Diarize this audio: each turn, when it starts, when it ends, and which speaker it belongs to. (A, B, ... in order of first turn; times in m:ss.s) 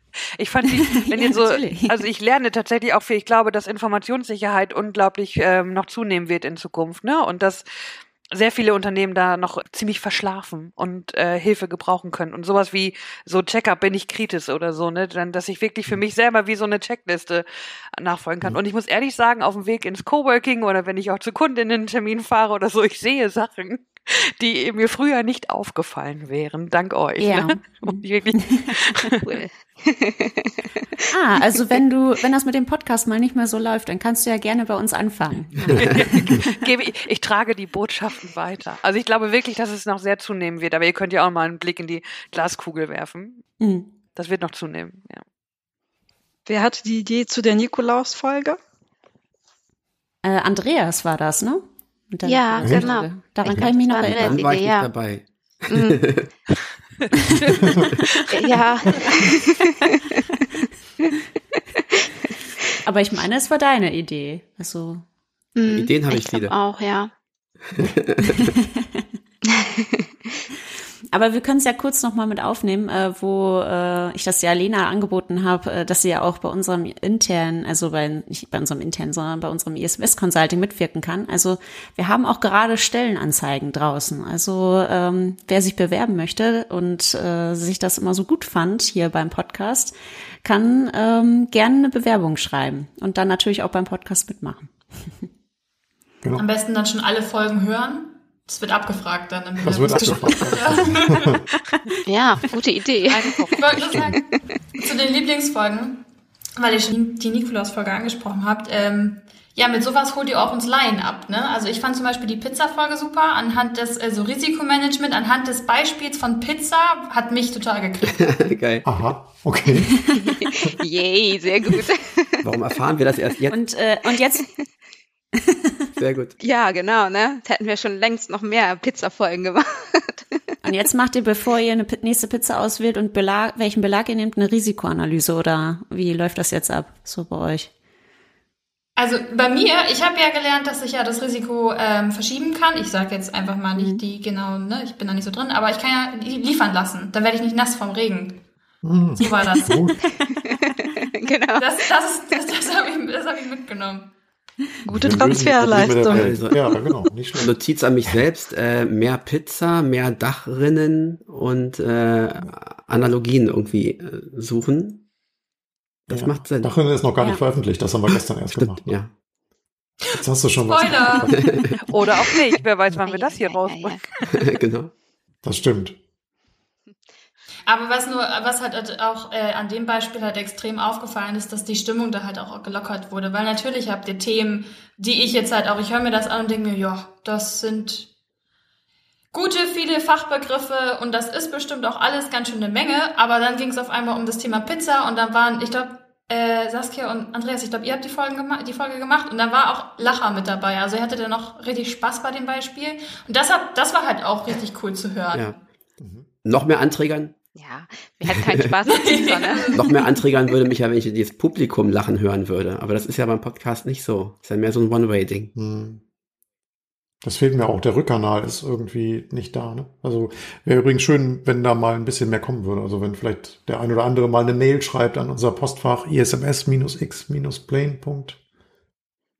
0:00.4-0:07.6 A
0:01.0-0:02.0 B
0:08.3-0:17.5 A
0:18.0-0:29.2 A
0:27.2-0:28.0 B
0:29.2-0:30.6 C
0:31.1-0:36.2 B
0:35.8-0:43.5 A
0:43.6-0:43.9 B
0:44.2-0:45.2 A
0:46.5-0:48.6 D
0:50.2-0:54.4 B
0:52.2-0:54.9 C
0:52.6-0:53.0 E
0:54.0-0:56.3 F
0:57.3-0:58.5 A
0:58.3-1:00.0 C
1:02.8-1:05.0 B
1:05.6-1:07.1 C
1:05.6-1:06.6 F
1:07.7-1:08.5 F
1:09.5-1:10.0 C
1:11.1-1:29.9 B
1:30.4-1:34.7 B
1:36.4-1:41.4 G
1:39.6-1:41.4 E
1:42.1-1:44.4 C
1:43.1-1:44.0 A
1:43.6-1:44.2 G
1:43.7-1:44.2 E
1:44.8-1:46.0 G
1:46.6-1:58.3 G
1:58.1-1:58.9 F
1:58.8-2:00.1 E
2:00.6-2:02.4 C
2:02.4-2:03.6 F
2:03.5-2:04.6 B
2:06.0-2:06.4 F
2:06.4-2:10.4 C
2:10.6-2:17.7 B
2:19.0-2:28.4 G
2:28.8-2:30.0 E
2:29.2-2:29.9 G
2:30.3-2:31.7 C
2:31.6-2:34.1 G
2:34.8-2:36.4 D
2:34.9-2:37.5 E
2:35.1-2:36.8 F
2:37.4-2:45.0 F
2:46.1-2:46.7 F
2:46.1-2:49.0 E
2:48.5-2:49.1 F
2:50.2-2:51.4 E
2:50.7-2:51.4 G
2:51.4-2:51.7 F
2:51.9-2:54.1 A
2:52.9-2:54.1 C
2:54.3-2:54.9 F
2:55.4-2:56.0 E
2:57.7-3:08.1 G
3:09.3-3:25.6 G
3:26.0-3:26.3 E
3:26.4-3:27.4 F
3:27.6-3:29.8 C
3:28.9-3:30.2 G
3:29.7-3:35.5 F
3:35.6-3:36.0 E
3:37.2-3:48.4 E